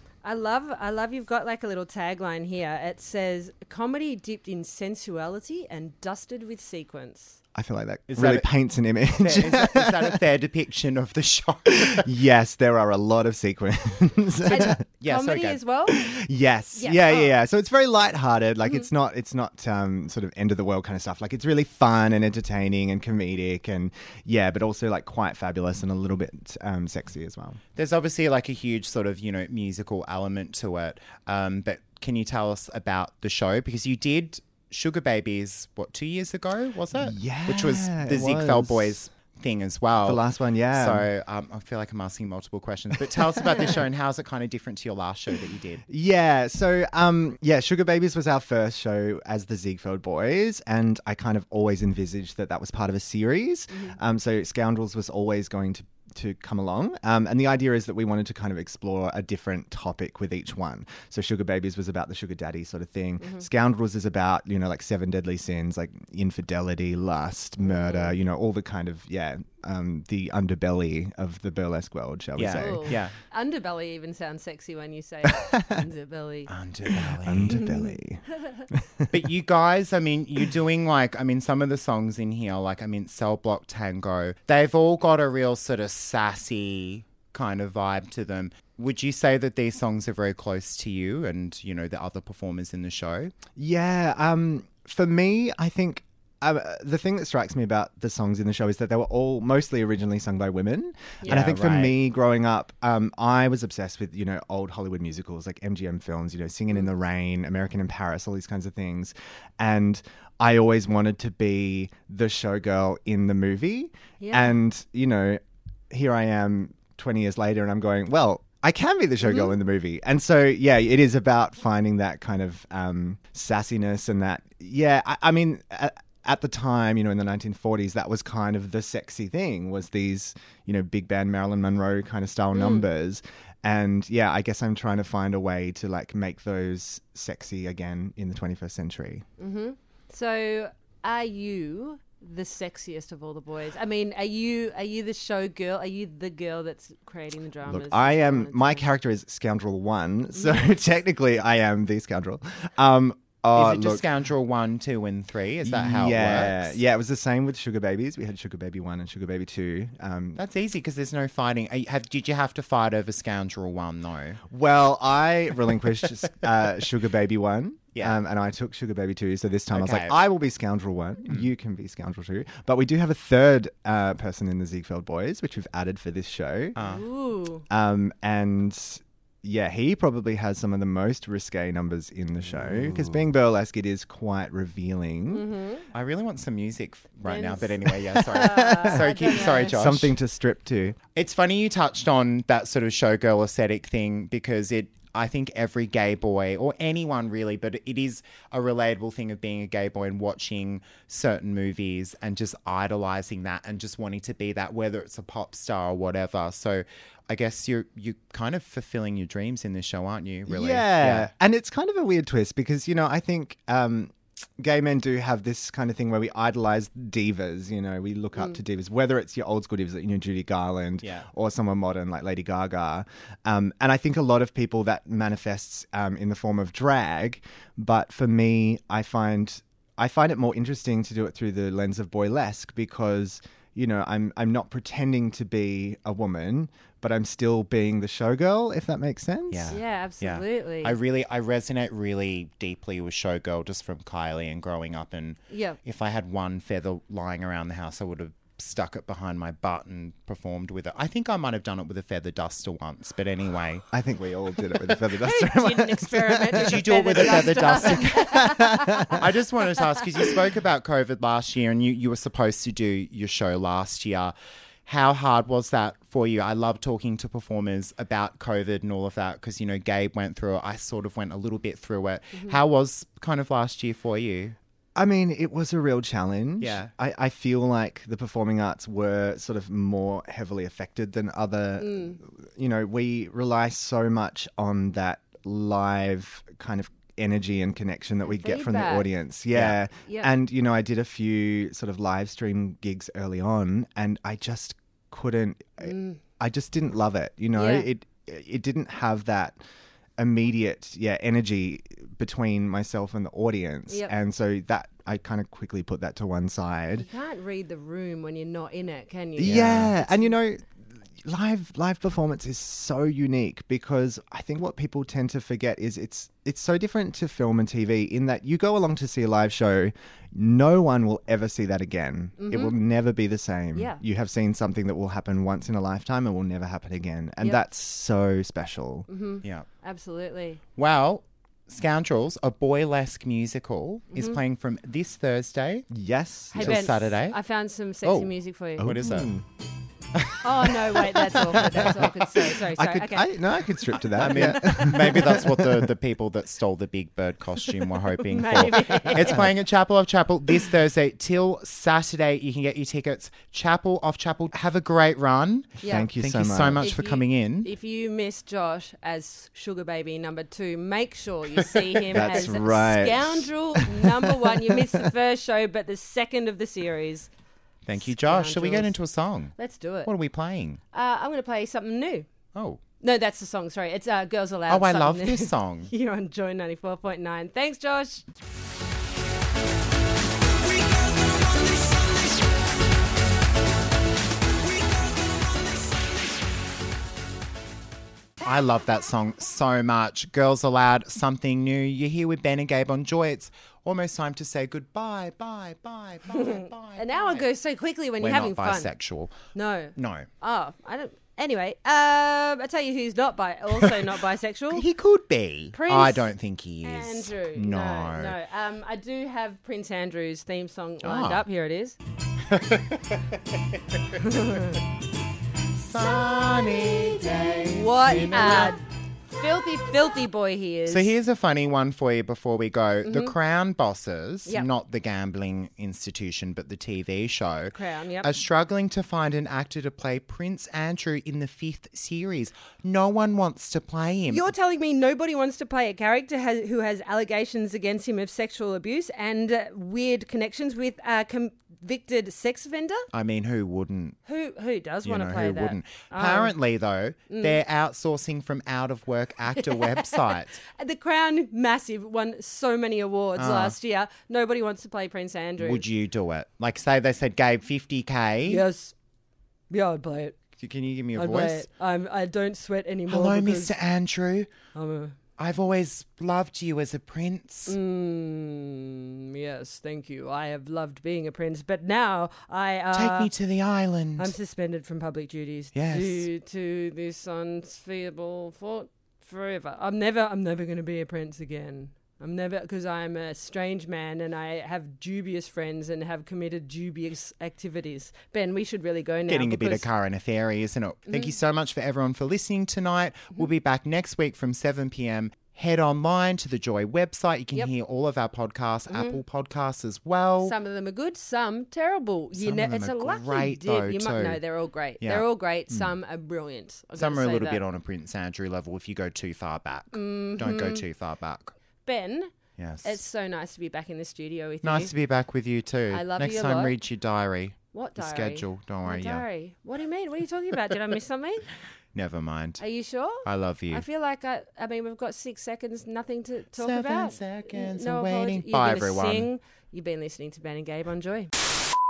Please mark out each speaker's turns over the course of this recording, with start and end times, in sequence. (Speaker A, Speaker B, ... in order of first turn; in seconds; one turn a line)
Speaker A: 0.2-7.4
Speaker B: 7.5-10.2
Speaker C: 8.1-8.5
Speaker C: 9.1-12.1
Speaker B: 11.8-14.8
Speaker C: 14.4-15.6
Speaker A: 14.5-16.1
Speaker B: 15.9-27.6
Speaker A: 16.7-17.4
Speaker C: 27.7-45.8
Speaker B: 36.9-39.0
Speaker B: 40.0-41.1
Speaker B: 45.9-73.0
Speaker A: 53.7-54.0
Speaker A: 63.2-63.5
Speaker A: 67.6-68.2
Speaker C: 72.4-73.1
Speaker A: 72.6-76.5
Speaker B: 75.3-75.8
Speaker C: 76.5-77.7
Speaker B: 76.9-79.2
Speaker A: 77.5-77.9
Speaker C: 79.1-93.3
Speaker B: 93.6-139.2
Speaker C: 101.2-102.0
Speaker A: 114.2-114.6
Speaker A: 119.2-119.5
Speaker A: 132.5-132.9
Speaker A: 139.4-148.9
Speaker B: 147.6-154.1
Speaker A: 150.3-150.7
Speaker C: 153.6-156.8
Speaker B: 155.6-160.4
Speaker C: 160.4-164.4
Speaker B: 164.5-176.8
Speaker C: 167.9-168.2
Speaker C: 169.7-170.2
Speaker C: 176.7-177.1
Speaker A: 176.8-177.6
Speaker B: 177.7-185.4
Speaker C: 182.4-183.3
Speaker A: 185.3-185.9
Speaker C: 185.9-190.2
Speaker A: 187.2-189.8
Speaker B: 187.9-191.0
Speaker C: 191.1-211.3
Speaker B: 210.5-239.8
Speaker C: 221.0-221.3
Speaker C: 239.5-253.9
Speaker A: 239.7-241.0
Speaker A: 245.5-245.8
Speaker B: 253.9-259.2
Speaker A: 255.2-259.2
Speaker C: 256.6-264.3
Speaker C: 264.9-274.6
Speaker B: 274.9-299.6
Speaker C: 276.6-276.9
Speaker A: 281.8-282.2
Speaker A: 288.2-289.1
Speaker C: 289.5-289.8
Speaker A: 290.0-290.3
Speaker A: 295.8-296.2
Speaker A: 297.6-297.9
Speaker B: 300.2-307.1
Speaker A: 306.9-310.4
Speaker B: 309.4-310.7
Speaker C: 309.5-309.9
Speaker B: 311.2-329.1
Speaker A: 322.4-322.7
Speaker A: 323.7-324.0
Speaker A: 329.1-330.6
Speaker C: 330.8-335.9
Speaker A: 334.1-334.4
Speaker B: 335.9-336.9
Speaker A: 336.5-339.1
Speaker C: 336.6-337.4
Speaker C: 338.0-339.3
Speaker B: 338.8-339.4
Speaker C: 340.1-341.9
Speaker A: 340.4-345.4
Speaker B: 340.9-345.9
Speaker C: 344.1-357.7
Speaker A: 348.2-349.5
Speaker B: 348.6-349.5
Speaker A: 355.8-356.1
Speaker B: 355.8-356.9
Speaker A: 356.8-367.3
Speaker C: 361.6-362.4
Speaker B: 362.1-365.1
Speaker C: 367.9-370.8
Speaker A: 368.0-368.9
Speaker A: 369.6-370.1
Speaker A: 370.9-372.3
Speaker C: 372.5-372.8
Speaker A: 373.0-378.2
Speaker C: 374.7-375.9
Speaker C: 388.4-397.5
Speaker A: 396.3-398.9
Speaker C: 398.2-399.4
Speaker A: 399.5-404.9
Speaker C: 399.9-400.3
Speaker C: 404.7-408.4
Speaker A: 405.7-412.0
Speaker C: 411.0-411.4
Speaker C: 412.5-414.6
Speaker A: 414.2-414.8
Speaker C: 415.8-418.7
Speaker A: 417.6-421.1
Speaker C: 420.9-434.5
Speaker A: 423.1-423.4
Speaker A: 427.7-428.3
Speaker A: 434.3-443.1
Speaker C: 443.1-444.2
Speaker A: 444.2-446.5
Speaker C: 445.0-450.6
Speaker A: 447.3-447.6
Speaker A: 449.6-455.9
Speaker C: 453.4-453.8
Speaker C: 455.6-458.6
Speaker A: 458.4-458.9
Speaker A: 459.7-460.4
Speaker C: 460.6-461.7
Speaker A: 461.1-463.8
Speaker C: 463.1-464.5
Speaker A: 464.7-465.1
Speaker C: 465.4-467.8
Speaker A: 467.7-473.3
Speaker C: 472.9-474.4
Speaker A: 474.2-489.9
Speaker C: 475.7-476.3
Speaker C: 489.2-500.6
Speaker A: 491.1-491.3
Speaker A: 498.9-499.2
Speaker A: 500.4-507.6
Speaker C: 502.3-504.4
Speaker C: 505.0-505.9
Speaker C: 506.9-511.6
Speaker A: 509.9-510.9
Speaker A: 511.9-514.9
Speaker C: 512.6-513.0
Speaker C: 514.6-519.2
Speaker A: 515.9-516.8
Speaker A: 517.7-521.4
Speaker C: 521.9-522.6
Speaker A: 522.6-531.3
Speaker C: 523.2-523.9
Speaker C: 526.6-529.3